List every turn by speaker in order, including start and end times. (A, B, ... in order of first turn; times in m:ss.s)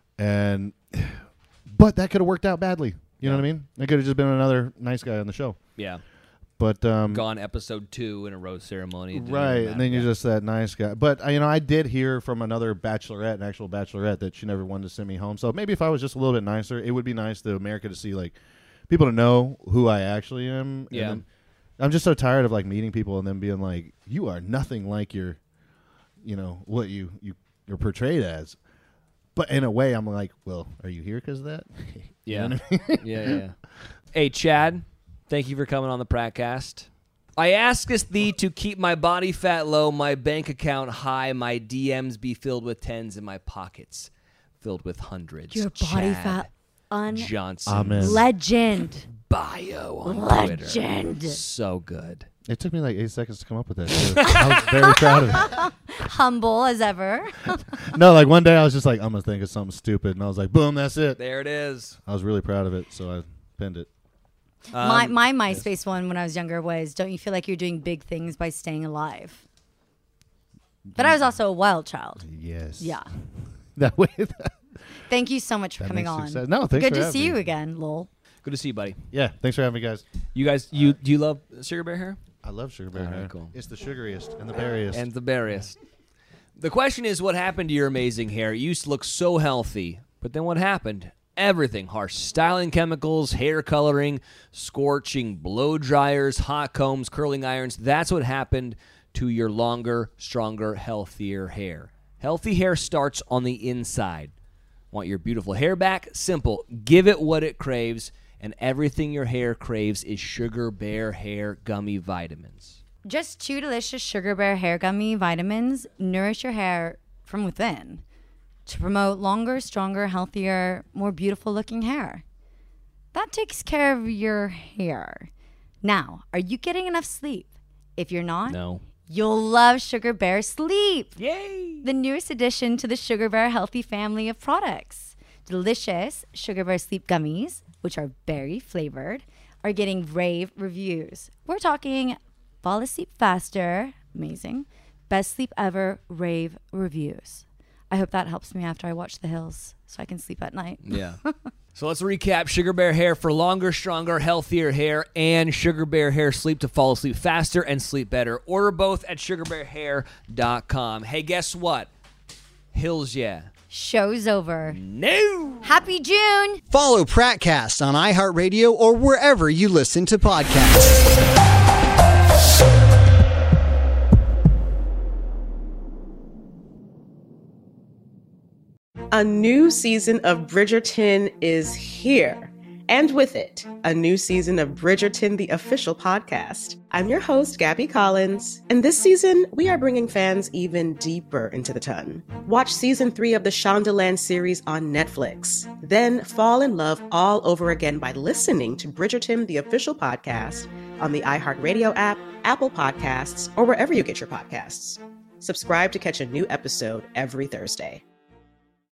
0:00.2-0:05.6 A
0:03.2-0:03.5 B
0:05.8-0:06.0 B
0:06.6-0:07.3 A
0:07.1-0:10.1 B
0:09.1-0:18.4 A
0:18.9-0:21.2 A
0:20.9-0:21.2 B
0:21.8-0:25.4 A
0:26.2-0:28.6 A
0:29.4-0:33.4 A
0:32.3-0:33.6 B
0:34.1-0:44.1 B
0:44.6-0:46.5 B
0:45.5-0:47.3 C
0:47.1-0:48.2 B
0:47.7-0:48.3 A
0:48.0-0:49.1 C
0:49.1-0:52.3 B
0:50.0-0:51.4 C
0:52.5-0:55.6 A
0:53.9-0:54.7 B
0:54.8-0:57.6 C
0:57.9-1:01.2 A
1:01.2-1:02.0 B
1:02.1-1:03.9 A
1:04.7-1:05.2 B
1:04.7-1:09.4 C
1:11.0-1:11.3 A
1:11.0-1:12.2 C
1:12.2-1:13.0 A
1:12.8-1:13.1 C
1:13.8-1:14.5 A
1:15.1-1:18.1 C
1:15.8-1:17.4 A
1:18.4-1:19.0 B
1:19.1-1:20.0 A
1:20.3-1:22.2 B
1:20.7-1:21.0 A
1:22.4-1:25.6 A
1:22.9-1:23.6 B
1:24.9-1:25.8 B
1:26.6-1:44.3 B
1:44.9-1:52.8 B
1:53.1-1:58.0 C
1:58.7-2:02.2 C
2:03.1-2:05.3 C
2:05.8-2:11.2 C
2:08.5-2:08.8 B
2:11.2-2:11.9 B
2:11.8-2:31.5 C
2:30.8-2:31.2 B
2:31.8-2:41.9 B
2:42.7-2:43.5 B
2:43.7-2:44.8 C
2:44.7-2:45.7 B
2:45.6-2:46.6 C
2:46.7-2:51.2 D
2:59.1-3:28.0 E